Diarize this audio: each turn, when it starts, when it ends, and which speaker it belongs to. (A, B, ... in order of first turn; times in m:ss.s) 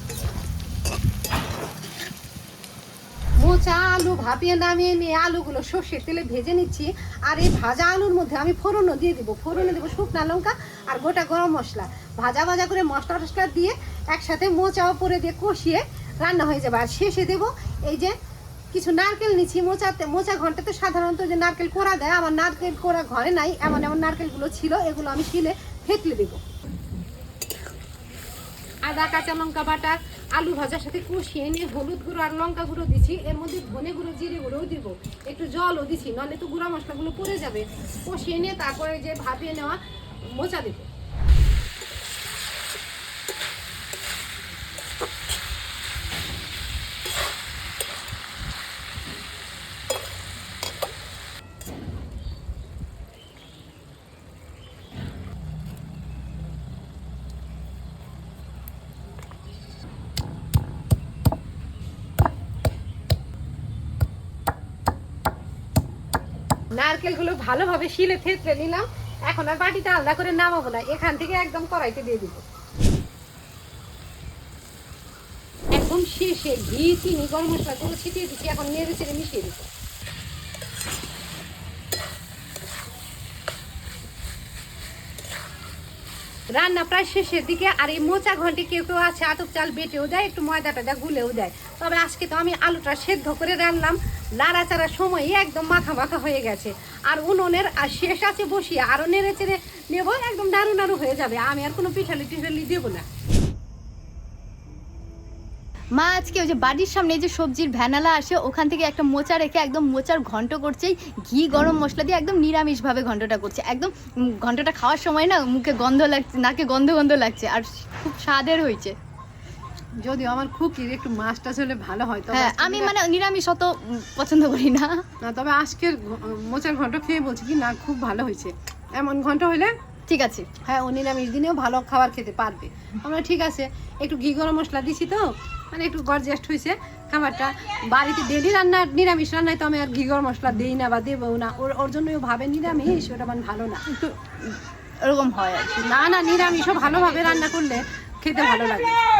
0:03.4-0:18.1 A
0:18.7-0:26.4 A
0:28.9-0:39.8 A
0:40.3-0:40.9 A
1:06.8-1:12.4 A
1:15.8-1:19.7 A
1:26.6-1:43.0 A
1:46.0-1:59.0 B
2:00.0-2:02.9 A
2:02.3-2:05.0 B
2:05.2-2:09.7 A
2:10.1-2:10.5 B
2:10.6-2:23.9 A
2:23.9-2:25.9 B
2:25.8-2:29.0 A